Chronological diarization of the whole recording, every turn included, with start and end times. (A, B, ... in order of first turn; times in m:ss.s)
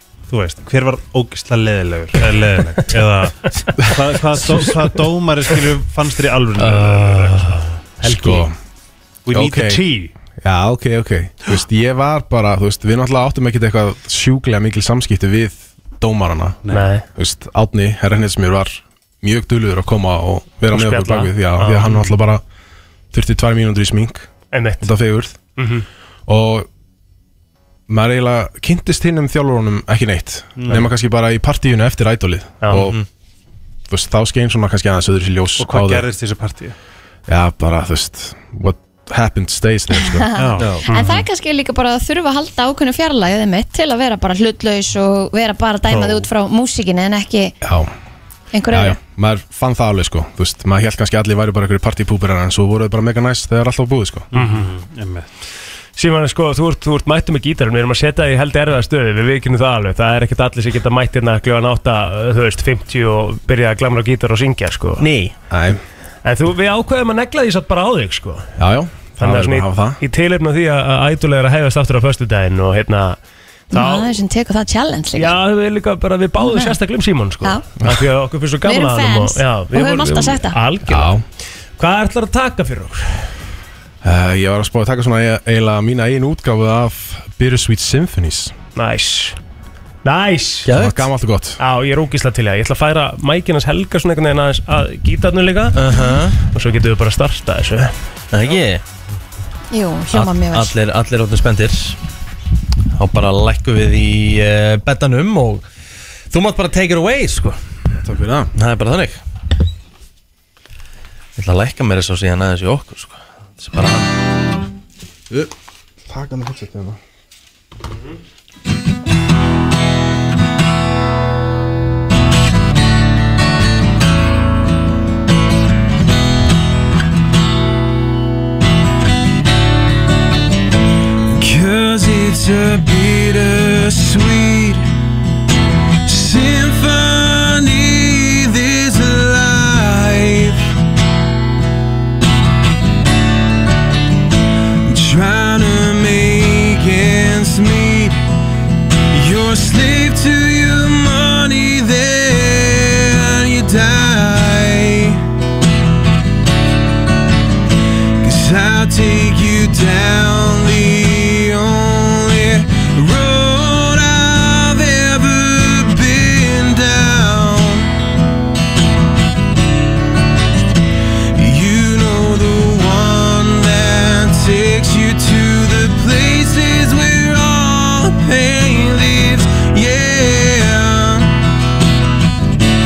0:00.3-0:07.6 A
0:06.6-0:07.7 B
0:08.0-0:08.6 C
0:08.0-0:08.5 D
0:09.3-0:10.1 A
0:09.3-0:09.8 C
0:10.4-0:16.6 C
0:16.7-0:17.0 D
0:17.2-0:22.4 C
0:20.7-0:22.1 D
0:23.1-0:24.3 C
0:24.5-0:24.9 D
0:24.8-0:25.4 C
0:25.6-0:25.9 D
0:26.3-0:26.7 C
0:27.9-0:33.0 C
0:30.6-0:30.9 A
0:32.6-0:32.9 D
0:32.7-0:33.0 B
0:33.9-0:36.1 C
0:35.6-0:36.8 A
0:37.3-0:40.3 C
0:40.2-0:47.6 E
0:40.4-0:41.2 A
0:40.6-0:40.8 B
0:45.9-0:46.3 A
0:47.6-0:47.9 C
0:48.5-0:49.0 E
0:48.7-0:54.3 C
0:54.3-0:55.3 A
0:54.3-0:54.7 D
0:56.0-1:05.1 D
1:05.0-1:05.4 B
1:05.5-1:05.8 C
1:06.2-1:08.5 D
1:08.6-1:10.0 C
1:09.2-1:13.2 D
1:13.7-1:14.1 D
1:13.7-1:15.4 E
1:15.2-1:21.2 D
1:16.4-1:16.8 E
1:18.6-1:20.6 E
1:20.9-1:21.2 C
1:21.8-1:23.3 D
1:24.0-1:28.6 C
1:28.8-1:29.4 D
1:30.0-1:30.7 D
1:30.6-1:31.1 B
1:30.8-1:31.6 C
1:31.6-1:37.9 D
1:35.7-1:36.4 B
1:38.3-1:38.8 B
1:39.7-1:40.8 E
1:40.1-1:42.0 B
1:42.9-1:45.7 B
1:46.3-1:47.6 B
1:48.0-1:48.5 C
1:48.5-1:49.2 B
1:51.4-1:54.1 B
1:56.1-1:57.0 C
2:11.3-2:14.9 F
2:16.0-2:20.8 F
2:24.9-2:28.2 F
2:29.1-2:35.2 F
2:38.2-2:47.9 F
2:51.4-3:01.4 F